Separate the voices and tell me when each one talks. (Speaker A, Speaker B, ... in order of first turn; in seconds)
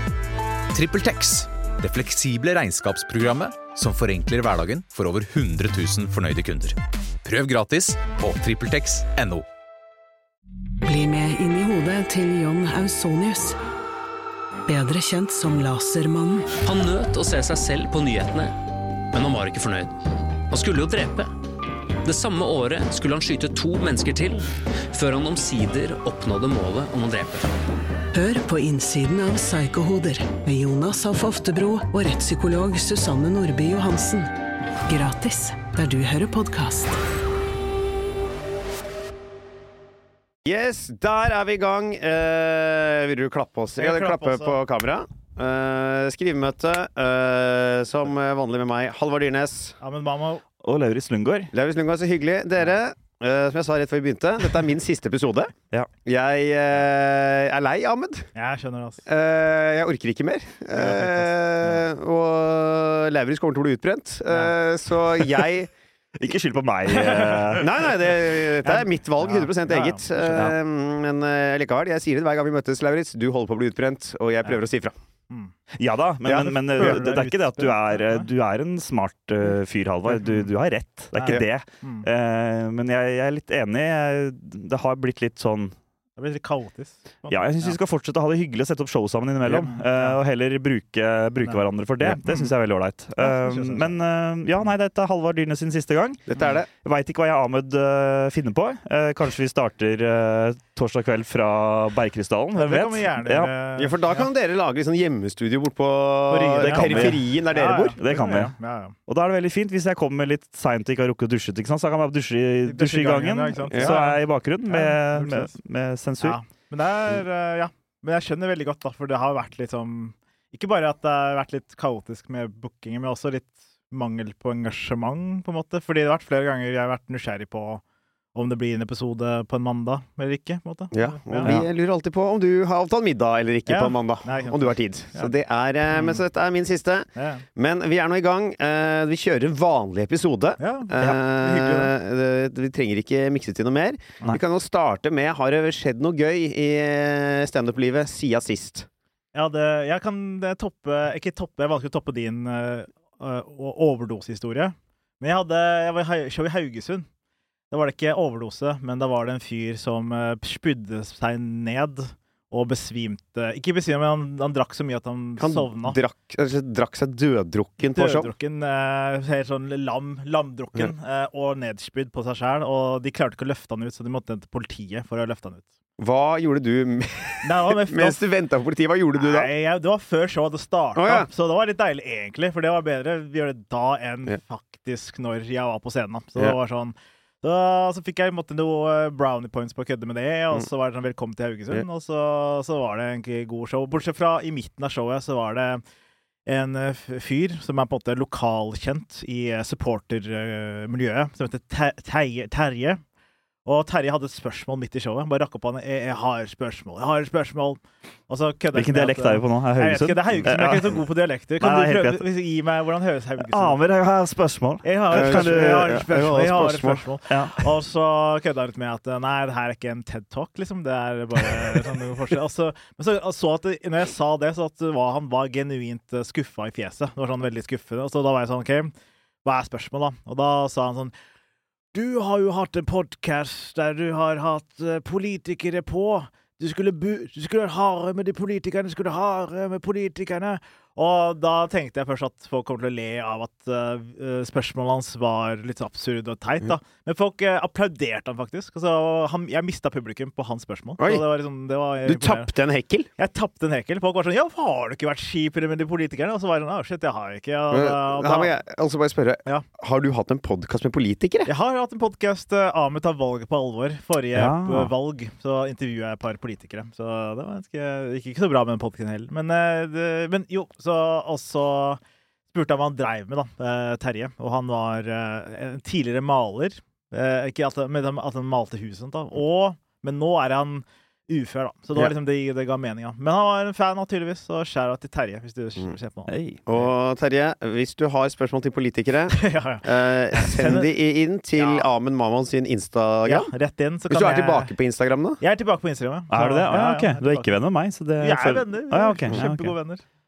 Speaker A: 0.7-9.5
Speaker B: 10.8-13.6, 14.7-16.5, 28.1-34.3, 34.9-37.0
Speaker C: 16.6-18.6, 19.1-19.9, 20.5-21.3, 22.0-27.5
Speaker D: 40.5-49.8, 51.5-55.5, 56.0-58.3, 59.1-65.7, 67.6-75.0, 76.2-77.0, 96.3-96.7, 103.8-108.0, 130.9-148.9, 165.4-168.3, 176.0-179.5, 181.0-181.3, 215.1-217.1, 251.0-251.2, 252.1-253.1, 257.7-261.5, 286.7-293.5, 294.1-295.4
Speaker E: 43.8-44.6, 49.8-50.5, 58.4-59.0, 60.8-61.3, 64.3-64.5, 66.9-67.6, 68.6-70.5, 76.4-78.3, 80.1-80.5, 81.1-82.1, 86.2-87.8, 89.5-90.2, 91.4-92.5, 93.2-94.0, 102.6-104.2, 106.3-108.9, 112.7-115.6, 116.2-127.8, 128.3-131.6, 133.7-135.3, 135.9-136.2, 137.2-137.4, 140.6-141.9, 149.3-157.1, 157.7-166.0, 167.9-175.7, 177.4-178.3, 179.2-195.8, 196.5-203.0, 203.7-213.8, 214.8-228.9, 229.4-231.1, 231.9-252.5, 253.2-258.5, 261.5-272.0, 272.5-286.9, 289.4-290.9, 291.6-291.9, 293.2-294.7, 295.4-297.6, 298.2-300.0
Speaker F: 50.6-51.5, 66.2-67.7, 75.8-85.8, 87.3-103.5, 106.6-107.3, 108.0-108.5, 109.1-116.4, 208.7-211.0, 211.6-212.2, 213.4-216.0, 217.3-217.6, 264.4-264.9, 286.3-286.6, 296.3-299.7